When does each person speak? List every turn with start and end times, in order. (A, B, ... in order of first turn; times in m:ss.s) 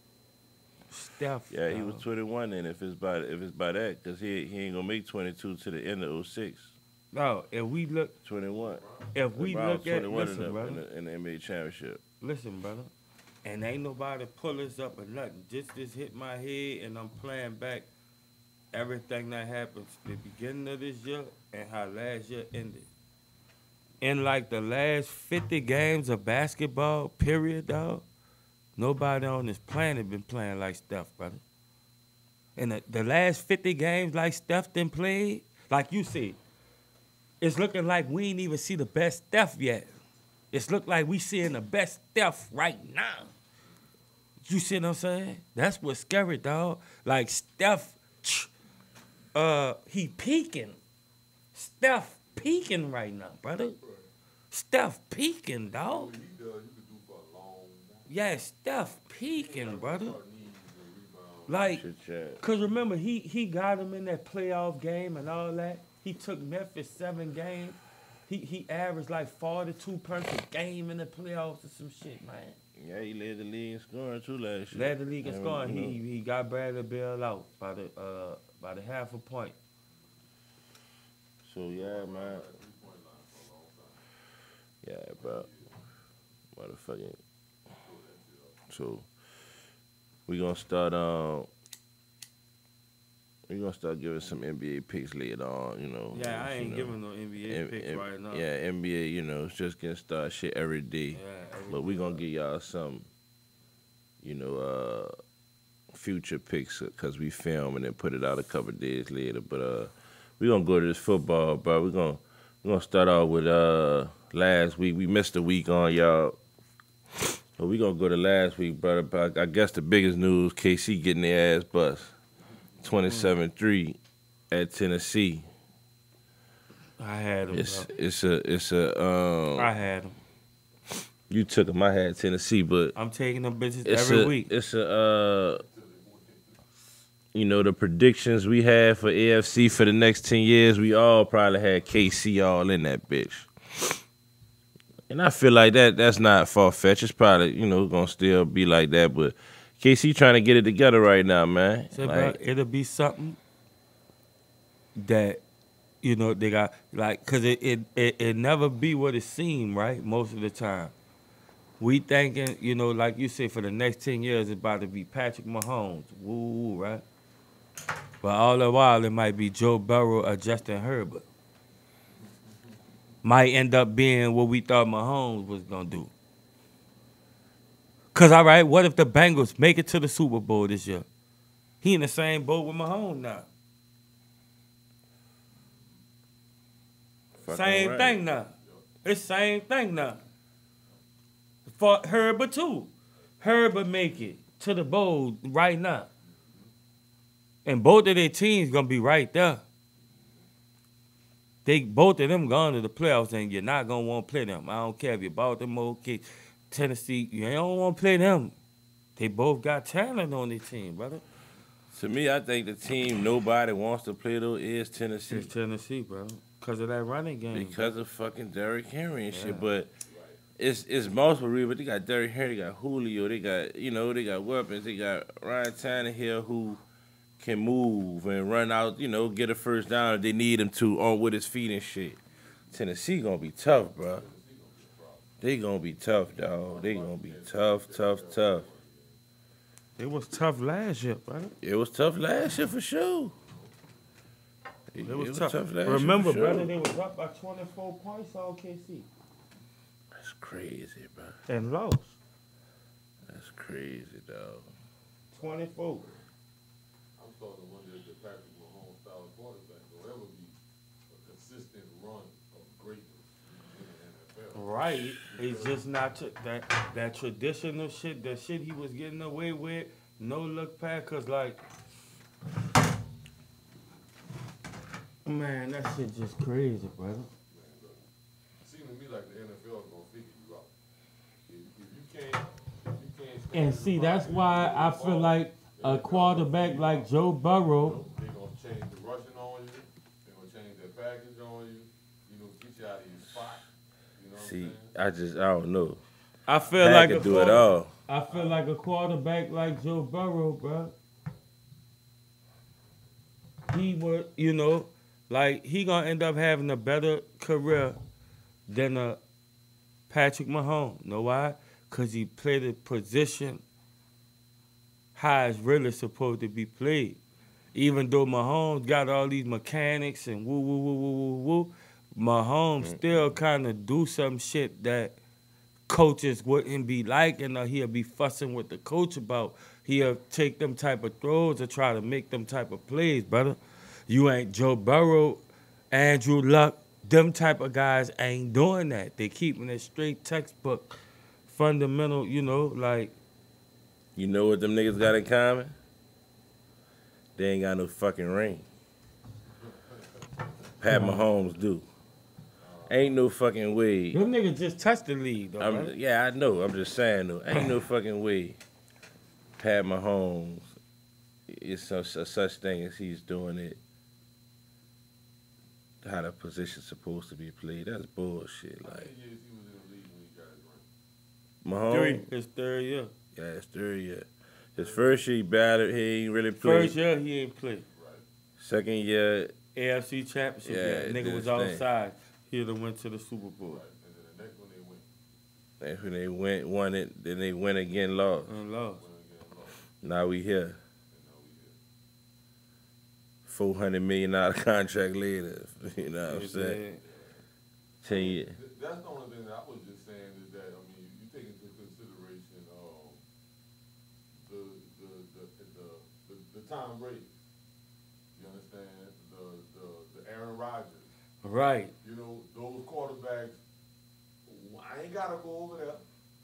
0:00.9-0:02.0 A
0:01.5-0:06.7 B
0:07.1-0:08.1 A
0:08.2-0:08.8 B
0:08.6-0:09.0 C
0:09.1-0:10.8 A
0:09.4-0:12.0 B
0:12.2-0:12.9 A
0:13.4-0:17.9 A
0:18.7-0:22.9 A
0:24.0-0:28.0 A
0:28.8-0:31.4 A
0:32.6-0:36.4 A
0:37.4-0:39.9 A
0:40.5-0:43.3 A
0:44.4-0:48.5 A
0:49.3-0:50.8 A
0:51.5-0:53.8 A
0:54.5-0:56.1 A
0:55.8-0:58.1 C
0:58.1-1:00.2 A
0:59.3-1:01.6 C
1:01.5-1:01.8 A
1:01.7-1:02.4 B
1:02.4-1:12.6 A
1:12.8-1:16.0 B
1:14.7-1:19.6 A
1:21.4-1:22.4 B
1:21.7-1:24.0 C
1:24.8-1:25.5 B
1:25.2-1:25.7 C
1:26.6-1:27.2 B
1:27.8-1:28.6 C
1:28.7-1:29.0 B
1:30.3-1:31.5 B
1:33.5-1:36.9 B
1:36.1-1:38.4 A
1:37.5-1:43.1 B
1:41.1-1:42.2 A
1:44.2-1:45.1 B
1:45.9-1:56.4 B
1:57.6-2:02.1 B
2:02.8-2:04.0 B
2:04.5-2:05.4 B
2:07.0-2:07.9 A
2:07.5-2:09.7 B
2:09.6-2:10.2 A
2:11.3-2:12.9 B
2:12.9-2:14.5 A
2:13.8-2:15.6 B
2:15.6-2:16.4 C
2:17.3-2:24.0 B
2:25.1-2:32.4 B
2:31.9-2:33.4 A
2:35.0-2:35.4 A
2:36.0-2:40.9 A
2:41.8-2:47.0 A
2:48.2-2:51.2 A
2:53.2-2:56.1 A
2:58.1-3:01.1 A
3:01.8-3:03.5 A
3:07.4-3:08.2 B
3:07.5-3:08.5 A
3:09.0-3:10.2 A
3:11.7-3:16.1 A
3:16.3-3:16.6 C
3:17.6-3:19.6 A
3:21.6-3:28.5 A
3:29.2-3:31.2 A
3:31.9-3:35.5 B
3:35.3-3:37.9 A
3:37.5-3:39.9 B
3:39.3-3:39.7 A
3:40.1-3:40.4 C
3:40.6-3:46.8 B
3:47.4-3:52.2 B
3:52.7-3:54.2 B
3:54.1-3:55.3 C
3:55.4-3:58.6 B
3:56.7-3:59.2 C
4:00.0-4:01.5 A
4:01.6-4:03.3 B
4:04.9-4:06.7 B
4:05.0-4:09.1 A
4:10.1-4:11.4 B
4:11.5-4:12.1 A
4:13.3-4:14.7 B
4:15.3-4:16.1 A
4:17.2-4:20.6 C
4:21.1-4:25.9 C
4:24.5-4:31.6 A
4:35.2-4:37.3 A
4:37.5-4:38.0 C
4:38.6-4:40.7 C
4:41.5-4:47.1 C
4:43.5-4:48.0 A
4:47.7-4:54.9 C
4:54.4-4:56.0 B
4:56.5-5:00.9 A
4:56.8-4:57.9 B
4:58.3-4:58.6 C
5:03.7-5:08.0 A
5:08.7-5:09.2 A
5:10.1-5:13.6 A
5:15.1-5:17.2 A
5:17.7-5:25.2 A
5:25.9-5:43.1 A
5:44.2-5:45.7 B
5:47.4-5:48.6 B
5:50.8-5:51.8 B
5:50.9-5:51.2 A
5:52.6-5:53.2 C
5:52.9-5:54.2 B
5:54.1-5:55.9 A
5:55.6-5:58.6 B
5:59.6-6:00.7 B
6:01.5-6:03.8 B
6:06.0-6:09.1 B
6:08.8-6:10.9 C
6:11.6-6:12.2 B
6:11.9-6:13.1 A
6:13.3-6:16.9 B
6:14.8-6:15.1 C
6:16.6-6:17.8 A
6:17.9-6:18.2 C
6:18.6-6:19.5 B
6:19.7-6:23.8 A
6:20.6-6:21.8 B
6:23.7-6:25.0 C
6:25.8-6:28.5 B
6:28.5-6:29.0 A
6:29.0-6:29.8 C
6:30.0-6:30.8 B
6:31.1-6:31.8 C
6:33.5-6:36.8 B
6:36.2-6:37.0 A
6:38.0-6:38.5 B
6:38.0-6:43.2 C
6:44.4-6:47.3 C
6:48.3-6:51.1 C
6:51.4-6:51.9 A
6:52.0-6:53.6 C
6:54.4-6:56.0 C